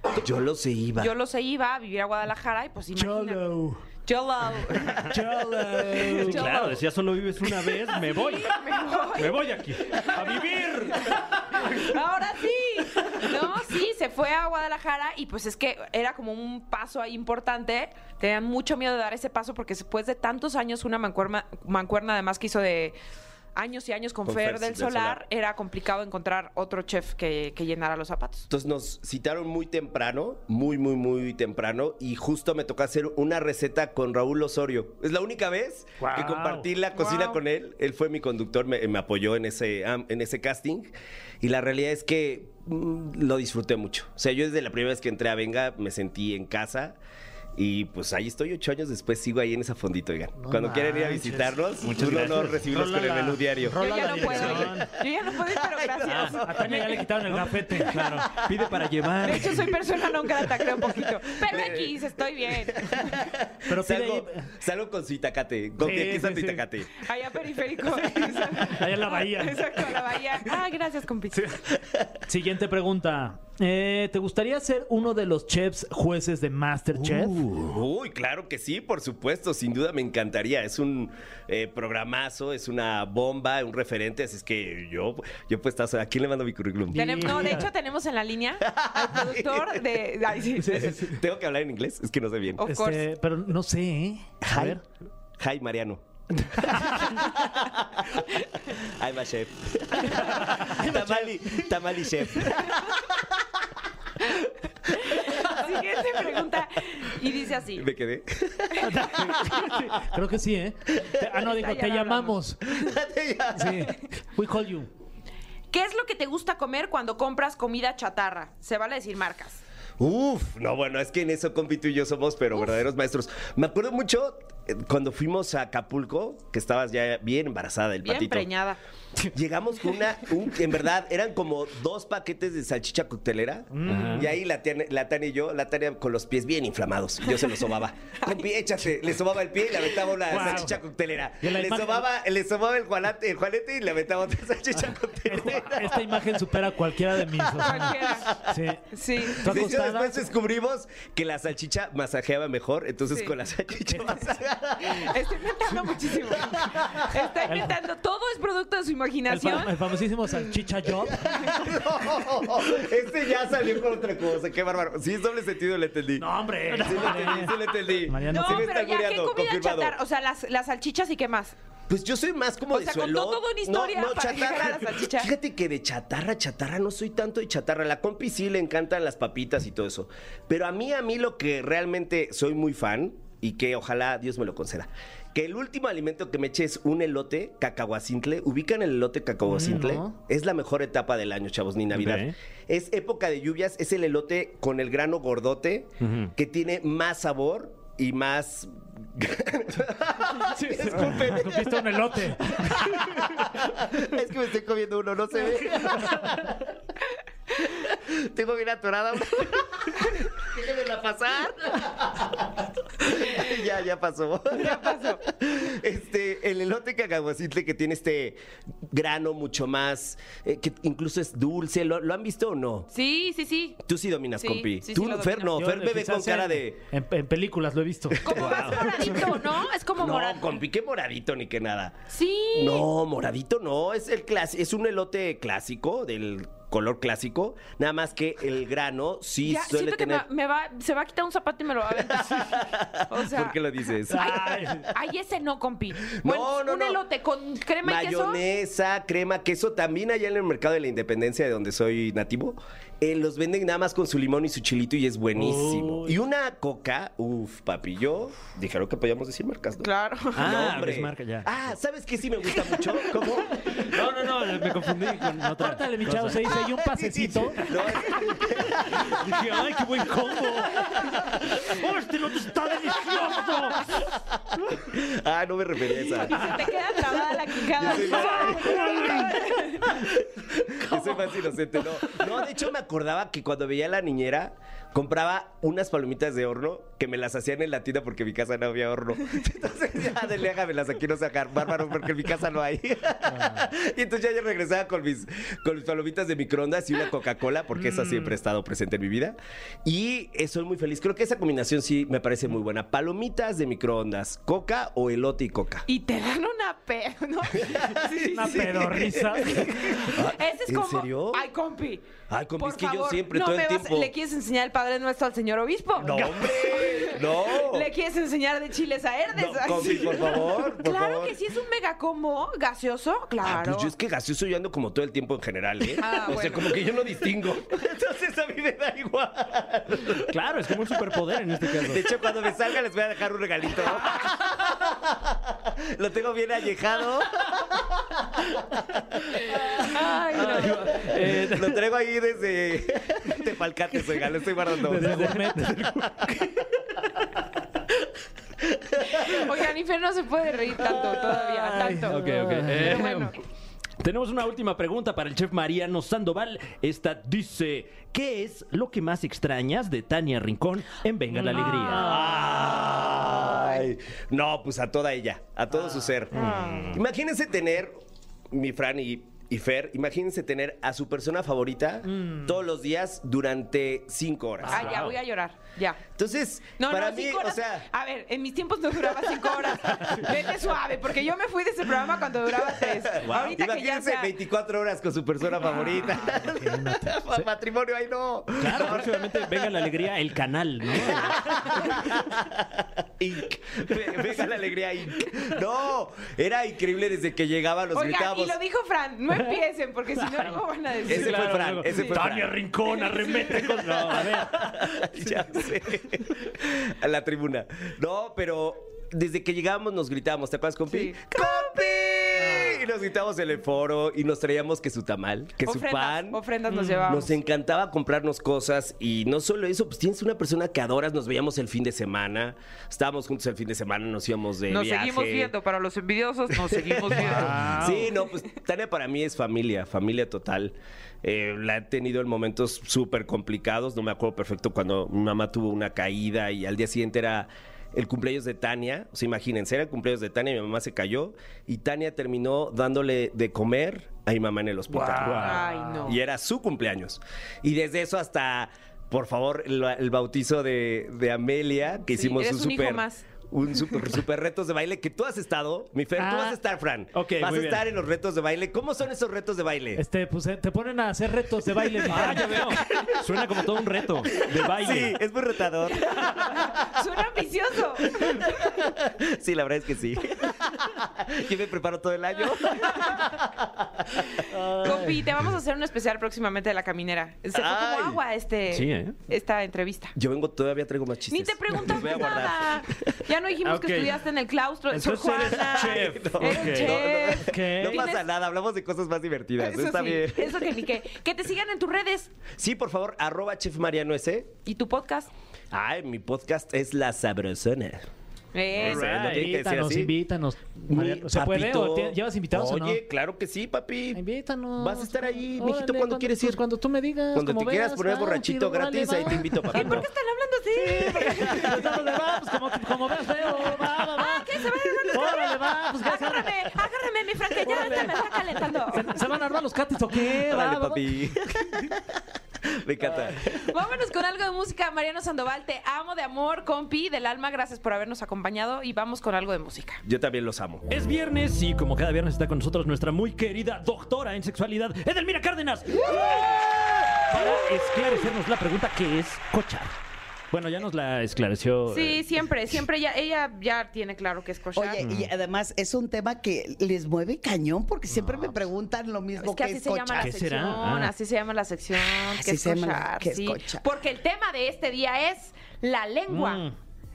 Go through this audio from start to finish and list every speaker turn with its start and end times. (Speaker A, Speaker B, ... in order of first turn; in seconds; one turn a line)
Speaker A: 0.2-1.1
Speaker B: 1.0-3.4
Speaker C: 2.9-3.8
Speaker B: 4.0-5.1
Speaker C: 5.1-6.7
Speaker D: 5.1-11.9
Speaker B: 5.9-6.8
Speaker B: 7.6-23.0
Speaker B: 23.5-28.5
Speaker A: 24.2-25.2
Speaker A: 28.5-47.0
Speaker C: 36.0-36.7
Speaker B: 36.9-37.4
Speaker A: 47.5-57.1
Speaker C: 50.4-51.5
Speaker D: 51.8-52.7
Speaker C: 52.6-54.9
Speaker B: 53.8-57.0
Speaker D: 56.0-56.4
Speaker C: 56.2-58.0
Speaker D: 57.3-59.8
Speaker A: 58.0-58.8
Speaker B: 59.2-63.2
Speaker A: 61.4-67.0
Speaker C: 63.7-64.5
Speaker C: 65.8-66.6
Speaker B: 67.0-71.5
Speaker C: 68.2-69.7
Speaker C: 72.3-77.4
Speaker D: 77.1-77.8
Speaker A: 77.5-87.6
Speaker C: 86.9-87.7
Speaker B: 86.9-91.1
Speaker A: 88.6-89.8
Speaker A: 90.7-92.6
Speaker B: 92.6-93.0
Speaker C: 92.6-94.8
Speaker A: 94.4-94.8
Speaker A: 95.4-96.0
Speaker A: 96.6-103.0
Speaker C: 96.6-97.2
Speaker C: 100.0-101.7
Speaker B: 104.9-107.9
Speaker A: 107.8-109.5
Speaker C: 108.8-112.6
Speaker A: 111.0-111.3
Speaker B: 111.4-112.9
Speaker A: 112.7-113.9
Speaker C: 113.5-114.9
Speaker B: 115.7-119.6
Speaker A: 120.0-128.5
Speaker B: 122.5-122.8
Speaker B: 128.0-128.8
Speaker A: 129.3-146.1
Speaker C: 133.7-134.2
Speaker D: 133.8-134.3
Speaker B: 138.2-138.5
Speaker C: 140.3-140.8
Speaker C: 141.4-142.1
Speaker C: 145.2-148.8
Speaker B: 147.6-148.3
Speaker A: 148.2-148.6
Speaker B: 148.9-149.7
Speaker A: 149.3-155.2
Speaker C: 149.4-150.2
Speaker C: 153.9-154.2
Speaker B: 154.8-159.8
Speaker A: 156.3-157.1
Speaker C: 157.5-157.7
Speaker C: 159.3-161.3
Speaker A: 161.1-169.9
Speaker C: 166.2-168.7
Speaker B: 168.3-171.6
Speaker A: 171.9-201.9
Speaker B: 172.7-175.3
Speaker C: 189.5-190.1
Speaker D: 191.9-192.3
Speaker D: 196.0-196.3
Speaker C: 200.6-203.0
Speaker A: 202.7-206.7
Speaker A: 207.8-222.9
Speaker B: 214.5-215.2
Speaker B: 222.9-223.8
Speaker A: 223.8-226.8
Speaker B: 224.4-225.6
Speaker C: 225.5-228.3
Speaker B: 228.2-230.6
Speaker A: 228.3-229.2
Speaker D: 228.3-229.2
Speaker A: 230.0-232.0
Speaker B: 232.1-232.9
Speaker A: 232.5-240.2
Speaker B: 239.4-248.5
Speaker A: 242.0-244.8
Speaker C: 244.1-244.8
Speaker A: 246.1-247.0
Speaker A: 247.8-259.9
Speaker D: 255.4-256.1
Speaker B: 259.8-260.6
Speaker D: 260.3-261.7
Speaker A: 260.4-264.0
Speaker D: 263.6-266.6
Speaker C: 265.6-267.6
Speaker A: 266.6-269.6
Speaker D: 269.0-273.9
Speaker A: 274.9-276.5
Speaker B: 276.0-279.9
Speaker A: 277.7-305.8
Speaker D: 278.4-279.3
Speaker B: 305.9-308.7
Speaker A: 307.5-311.4
Speaker C: 308.3-310.1
Speaker B: 309.3-323.9
Speaker A: 312.3-314.1
Speaker A: 316.0-317.9
Speaker A: 319.3-321.4
Speaker A: 323.4-337.8
Speaker B: 326.0-326.9
Speaker D: 330.3-332.1
Speaker B: 339.8-341.0
Speaker D: 340.3-341.8
Speaker A: 340.6-345.4
Speaker C: 344.9-345.9
Speaker D: 344.9-346.6
Speaker B: 349.1-353.4
Speaker D: 351.3-353.3
Speaker C: 352.2-352.9
Speaker D: 354.0-362.2
Speaker A: 361.5-375.0
Speaker C: 361.6-362.4
Speaker B: 366.4-366.8
Speaker D: 366.4-367.0
Speaker C: 372.2-372.5
Speaker D: 374.6-375.1
Speaker B: 374.7-376.0
Speaker A: 376.1-377.9
Speaker B: 376.8-384.3
Speaker A: 383.1-390.1
Speaker C: 386.1-387.5
Speaker D: 388.6-391.9
Speaker A: 390.9-398.6
Speaker B: 397.9-402.2
Speaker D: 401.1-405.7
Speaker A: 401.1-402.6
Speaker B: 402.9-403.7
Speaker A: 403.7-416.4
Speaker B: 410.9-412.1
Speaker B: 415.6-417.4
Speaker A: 417.0-425.5
Speaker B: 424.7-427.6
Speaker A: 426.5-460.0
Speaker C: 427.2-428.1
Speaker D: 444.9-445.6
Speaker C: 445.0-445.4
Speaker B: 445.4-446.2
Speaker B: 452.1-453.3
Speaker C: 456.2-456.6
Speaker D: 457.1-457.9
Speaker C: 459.9-462.8
Speaker D: 462.1-465.2
Speaker A: 462.1-463.2
Speaker A: 464.2-466.1
Speaker B: 465.9-468.8
Speaker A: 468.6-474.3
Speaker D: 474.6-475.1
Speaker B: 474.8-480.1
Speaker A: 477.5-478.2
Speaker D: 478.7-479.2
Speaker A: 480.1-483.0
Speaker B: 481.3-488.3
Speaker D: 483.6-484.2
Speaker D: 484.9-487.8
Speaker A: 485.5-490.7
Speaker C: 487.5-488.0
Speaker B: 489.6-492.3
Speaker A: 492.5-494.5
Speaker B: 494.6-495.3
Speaker A: 495.7-498.1
Speaker B: 498.5-499.1
Speaker A: 498.8-500.1
Speaker D: 498.8-499.5
Speaker C: 498.9-503.0
Speaker A: 500.9-504.2
Speaker C: 504.1-510.1
Speaker A: 504.8-506.6
Speaker A: 507.3-510.1
Speaker B: 509.7-512.0
Speaker C: 510.8-516.5
Speaker A: 511.2-511.7
Speaker B: 513.6-519.2
Speaker C: 517.6-518.1
Speaker C: 518.9-521.1
Speaker A: 520.4-522.0
Speaker A: 522.7-523.5
Speaker B: 523.4-530.0
Speaker A: 530.0-530.9
Speaker D: 530.9-536.6
Speaker D: 537.3-539.9
Speaker D: 540.5-542.2
Speaker B: 541.9-545.0
Speaker E: 544.7-550.7
Speaker D: 545.0-545.3
Speaker B: 549.4-556.6
Speaker D: 550.1-551.1
Speaker E: 552.1-553.8
Speaker C: 556.3-556.7